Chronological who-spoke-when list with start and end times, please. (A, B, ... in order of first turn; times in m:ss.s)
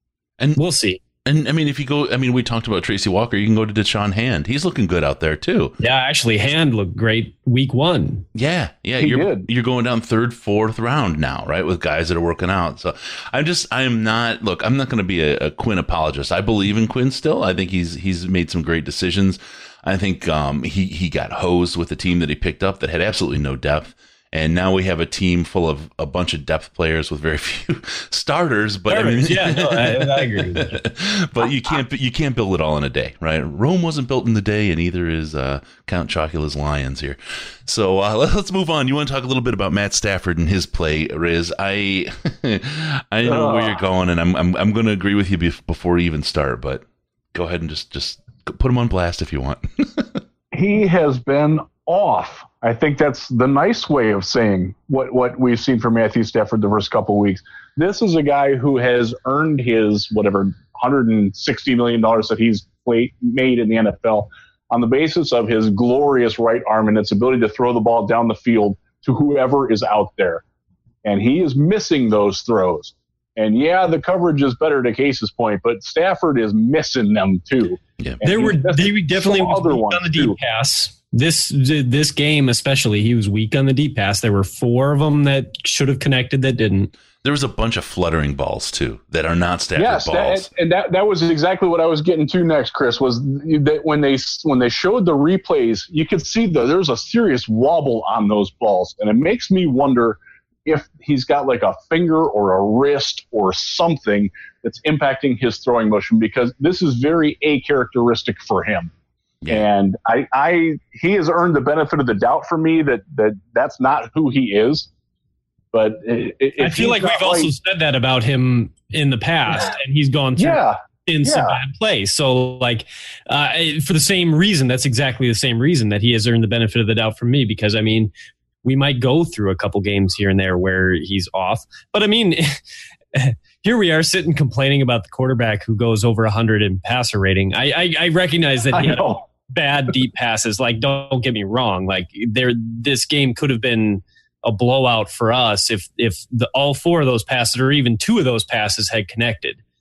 0:00.6-0:01.0 A
0:01.2-0:05.8 B
0:05.8-0:08.2 A
0:08.4-0:50.2 B
0:09.0-0:09.5 C
0:28.9-0:30.8 A
0:43.2-0:43.8 C
0:50.5-1:10.4 C
1:11.0-1:20.4 C
1:18.2-1:26.9 A
1:27.2-1:30.5 B
1:29.8-1:48.9 C
1:49.5-1:54.9 C
1:55.7-1:57.5 C
1:56.6-2:08.1 A
2:00.4-2:01.6 C
2:08.6-2:12.6 A
2:13.1-2:29.6 A
2:18.7-2:19.2 C